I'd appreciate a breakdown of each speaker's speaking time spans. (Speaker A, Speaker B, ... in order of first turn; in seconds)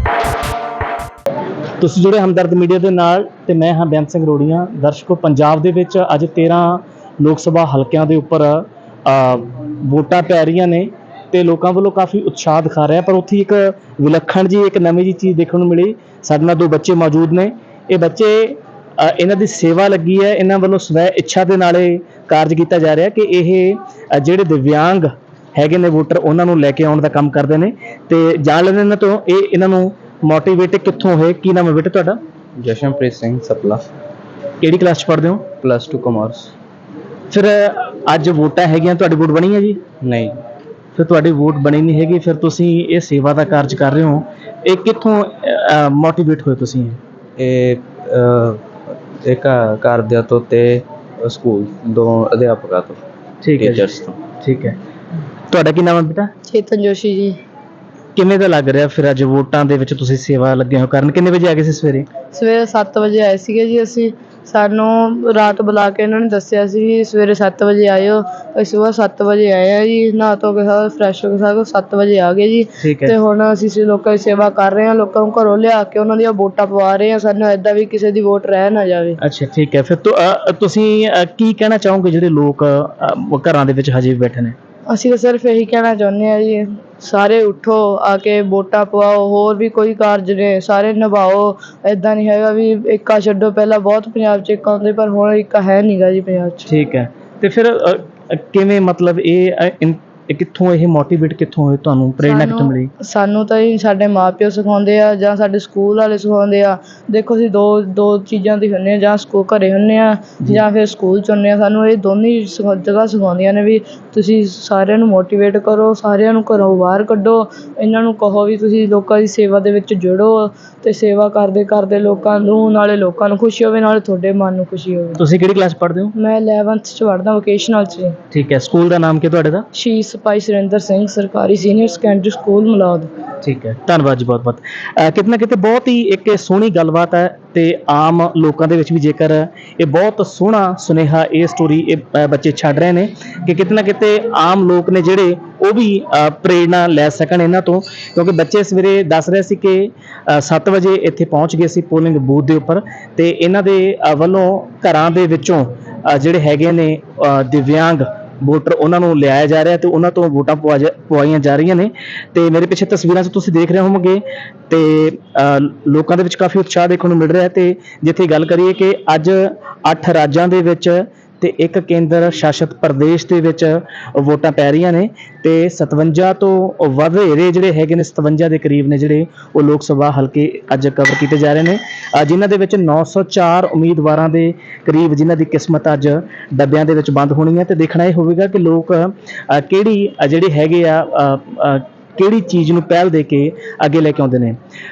Speaker A: 1.8-32.2, 34.6-35.5, 37.3-39.8, 41.0-47.0, 53.4-54.8, 55.5-56.3, 58.2-62.1, 72.8-73.2, 79.2-84.5, 96.7-102.9, 125.2-126.1, 128.3-129.7, 133.4-194.6
Speaker B: 32.6-33.8, 35.6-36.5, 40.0-40.4, 47.4-48.6, 49.2-53.0, 53.6-54.2
Speaker C: 56.5-57.4, 62.3-79.2, 84.9-96.7, 102.2-125.2, 126.2-128.2, 129.7-133.1